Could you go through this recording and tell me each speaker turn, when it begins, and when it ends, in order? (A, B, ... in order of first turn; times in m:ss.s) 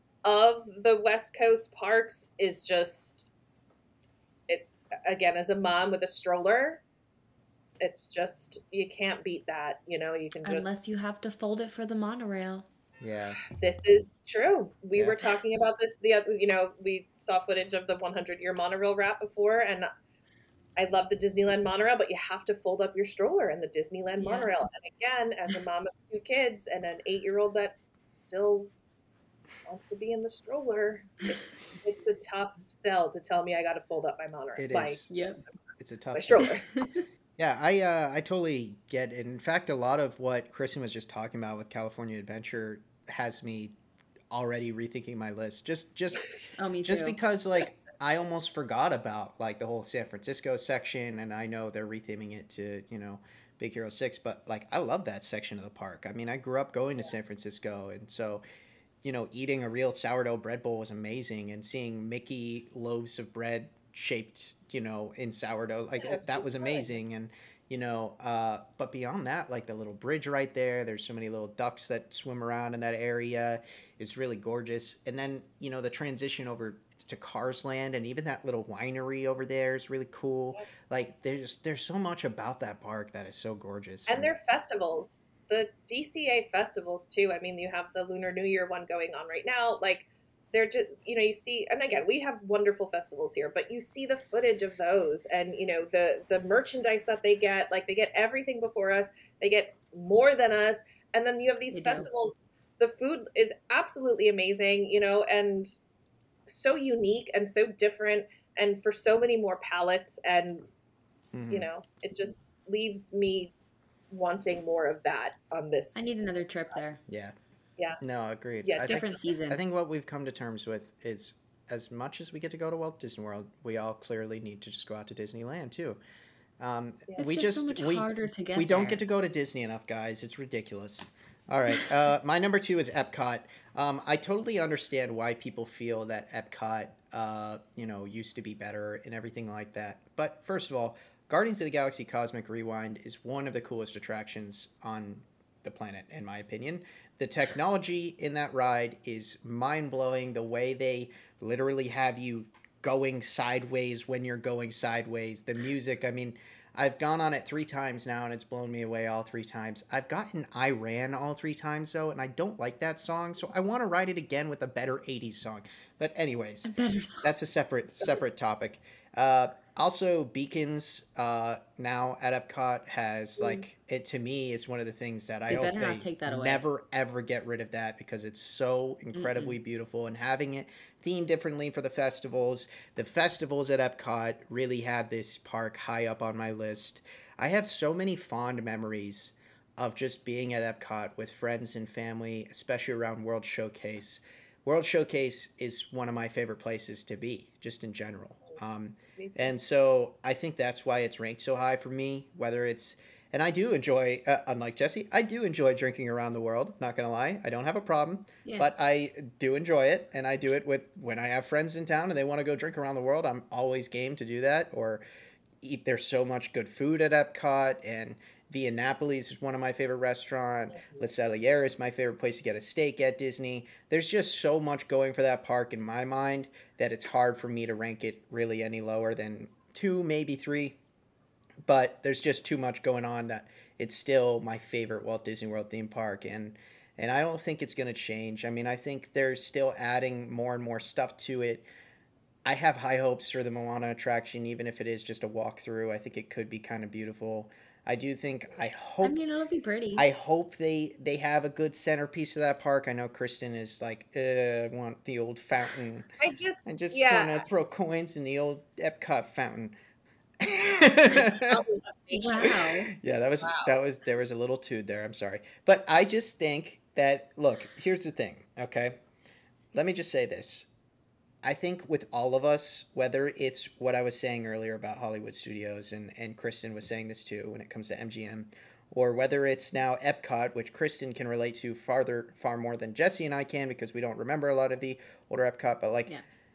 0:00.2-0:03.3 A
0:04.5-0:06.8 A
0:07.8-0:10.7 A
0:10.4-0:12.7 B
0:13.0-0:13.4 C
0:13.5-0:19.9 A
0:14.9-0:15.2 C
0:20.8-0:28.7 A
0:24.2-0:24.5 B
0:29.6-0:35.0 A
0:34.6-0:35.1 C
0:35.1-0:35.4 B
0:35.8-0:36.5 C
0:36.1-0:36.7 A
0:36.4-0:37.0 B
0:37.4-0:43.7 C
0:44.3-0:46.2 C
0:46.6-0:47.2 B
0:46.8-0:58.4 C
0:59.0-1:24.3 C
1:06.0-1:06.9 A
1:24.1-1:45.7 A
1:41.7-1:42.1 B
1:46.5-1:50.7 A
1:51.3-1:51.7 C
1:51.5-1:53.5 A
1:54.1-1:56.1 A
1:55.9-1:57.0 B
1:57.1-1:57.3 C
1:58.0-2:06.0 C
1:58.6-1:59.0 A
1:58.9-1:59.6 B
2:06.6-3:35.0 C
2:07.2-2:09.0 B
2:46.6-2:47.3 B
2:55.5-2:56.6 B
2:59.1-2:59.6 B
3:19.2-3:19.6 A
3:28.4-3:28.7 B
3:35.6-3:50.8 C
3:51.6-4:01.6 C
4:02.4-4:09.2 C
4:09.0-4:10.0 B
4:10.0-4:16.1 C
4:16.2-4:17.4 A
4:16.7-4:19.7 C
4:20.4-4:21.6 C
4:21.1-4:22.6 A
4:22.1-4:22.9 B
4:22.9-4:29.0 C
4:23.4-4:23.7 A
4:29.7-4:30.7 C
4:31.4-4:46.1 C